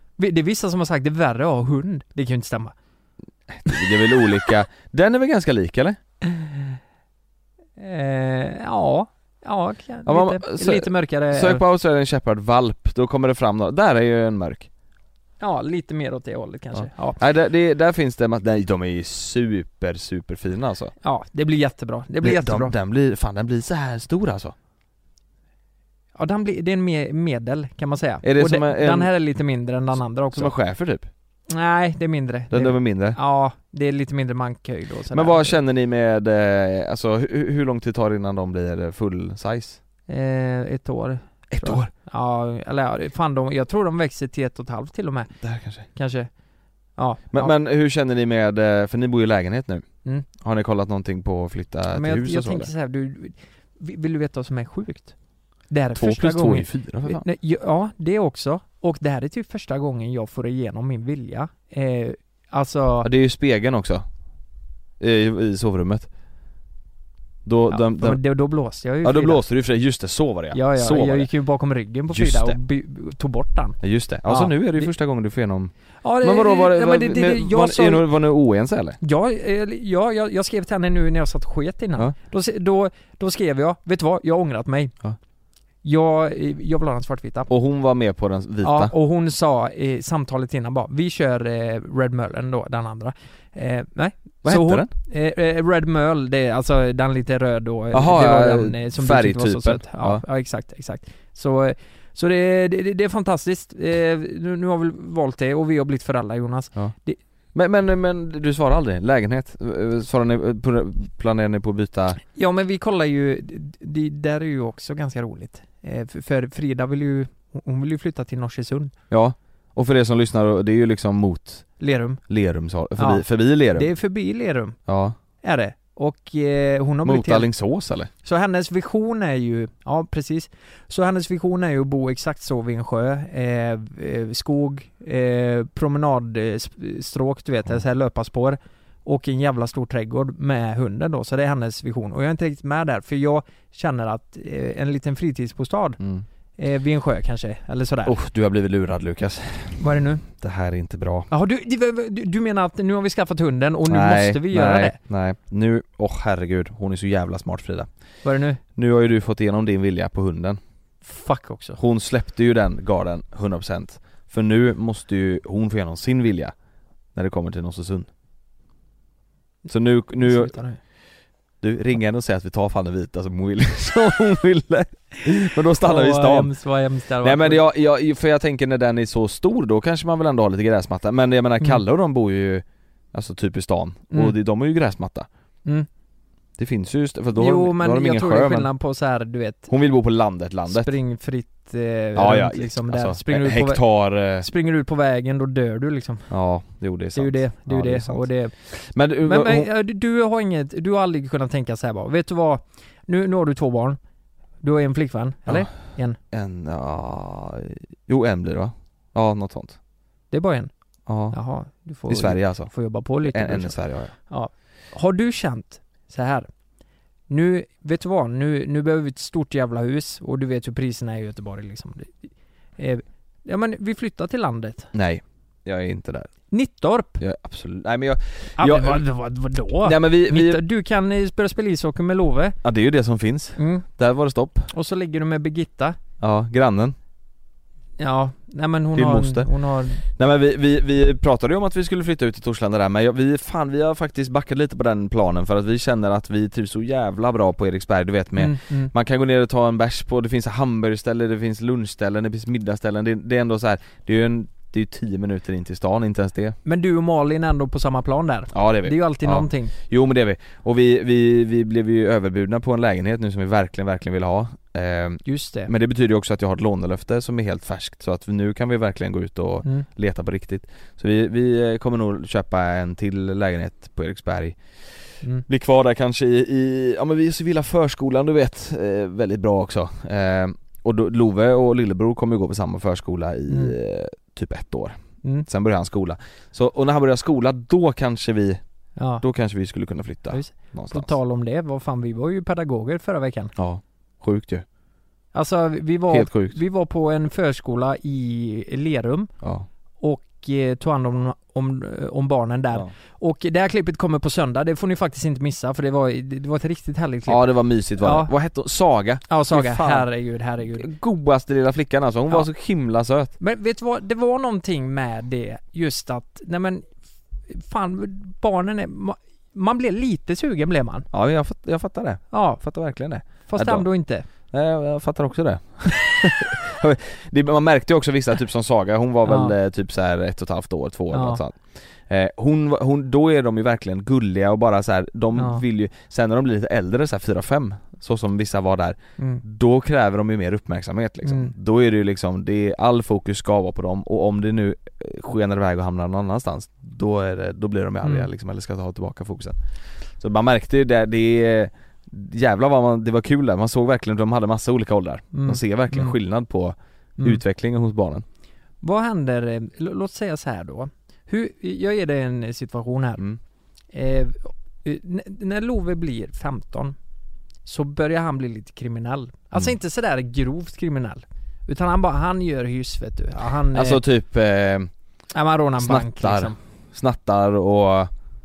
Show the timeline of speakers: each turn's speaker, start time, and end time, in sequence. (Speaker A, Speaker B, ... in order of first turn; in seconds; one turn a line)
Speaker A: 0.2-2.7
Speaker B: 3.5-6.0
Speaker A: 7.8-11.6
Speaker B: 10.1-14.7
Speaker A: 15.4-17.2
Speaker B: 16.7-20.9
Speaker A: 21.0-22.7
Speaker B: 22.2-24.5
Speaker A: 26.1-30.5
Speaker B: 28.2-29.1
Speaker B: 30.3-31.1
Speaker A: 31.5-35.6
Speaker B: 32.5-33.2
Speaker B: 35.1-39.8
Speaker A: 40.1-45.3
Speaker B: 41.5-41.9
Speaker B: 45.4-45.9
Speaker A: 45.9-46.3
Speaker A: 47.0-47.5
Speaker B: 47.3-49.8
Speaker B: 50.4-52.7
Speaker A: 51.9-55.1
Speaker A: 55.7-63.1
Speaker B: 55.9-57.2
Speaker B: 63.0-64.0
Speaker B: 65.0-66.1
Speaker B: 67.4-68.2
Speaker A: 67.7-69.4
Speaker B: 69.0-71.3
Speaker A: 70.5-74.9
Speaker B: 72.1-72.6
Speaker B: 73.8-79.0
Speaker A: 76.0-78.0
Speaker A: 79.0-84.9
Speaker A: 85.8-87.5
Speaker B: 87.5-88.9
Speaker A: 88.6-107.2
Speaker B: 94.4-94.9
Speaker B: 97.9-100.2
Speaker B: 107.5-112.2
Speaker A: 112.3-118.9
Speaker B: 119.1-121.7
Speaker A: 121.8-122.2
Speaker B: 122.3-123.9
Speaker A: 123.0-124.8
Speaker B: 124.8-125.2
Speaker A: 125.4-127.5
Speaker B: 127.0-128.1
Speaker A: 128.2-146.0
Speaker B: 146.0-146.2
Speaker A: 146.6-148.2
Speaker B: 148.1-151.3
Speaker A: 149.8-150.2
Speaker A: 151.3-155.0
Speaker B: 153.9-157.9
Speaker A: 158.2-158.6
Speaker B: 158.7-160.6
Speaker A: 161.0-161.8
Speaker B: 161.8-166.5
Speaker B: 167.1-168.1
Speaker B: 169.7-170.5
Speaker A: 170.2-170.8
Speaker B: 171.6-176.5
Speaker A: 175.8-177.6
Speaker B: 177.2-185.3
Speaker A: 184.1-184.3
Speaker B: 186.6-188.7
Speaker A: 187.3-189.7
Speaker B: 189.7-190.9
Speaker A: 190.7-196.3
Speaker B: 192.2-194.5
Speaker B: 196.3-199.7
Speaker A: 197.1-198.5
Speaker A: 199.2-204.0
Speaker A: 204.6-206.2
Speaker B: 206.3-209.8
Speaker A: 210.3-210.7
Speaker B: 211.1-211.3
Speaker A: 211.3-213.8
Speaker B: 212.1-212.7
Speaker B: 213.2-214.1
Speaker A: 214.3-216.5
Speaker A: 217.3-224.9
Speaker B: 224.9-226.3
Speaker A: 226.5-227.2
Speaker B: 227.2-229.1
Speaker A: 228.6-232.6
Speaker B: 229.8-230.6
Speaker B: 232.6-234.7
Speaker A: 233.6-233.8
Speaker A: 234.7-236.0
Speaker B: 236.2-236.9
Speaker A: 238.0-240.0
Speaker B: 238.9-239.5
Speaker B: 240.0-256.6
Speaker A: 248.3-248.9
Speaker A: 256.6-259.7
Speaker B: 258.5-274.6
Speaker A: 265.2-265.7
Speaker B: 275.5-288.6
Speaker A: 283.5-283.7
Speaker A: 289.0-289.2
Speaker B: 289.2-291.1
Speaker A: 290.3-293.5
Speaker B: 293.6-294.6
Speaker A: 295.3-299.3
Speaker B: 296.1-296.6
Speaker A: 300.0-307.5
Speaker B: 307.3-310.1
Speaker A: 308.0-308.3
Speaker A: 309.3-310.9
Speaker B: 310.7-313.3
Speaker A: 313.4-316.9
Speaker A: 317.5-321.1
Speaker B: 321.1-323.9
Speaker A: 322.3-322.6
Speaker A: 323.3-324.3
Speaker B: 324.5-349.6
Speaker A: 329.2-329.5
Speaker A: 331.1-331.4
Speaker A: 335.3-335.6
Speaker A: 341.2-341.5
Speaker B: 350.2-358.2
Speaker A: 355.3-356.1
Speaker A: 358.8-363.2
Speaker A: 363.9-366.9
Speaker A: 367.6-374.0
Speaker B: 373.7-374.9
Speaker A: 375.3-376.6
Speaker B: 375.8-378.1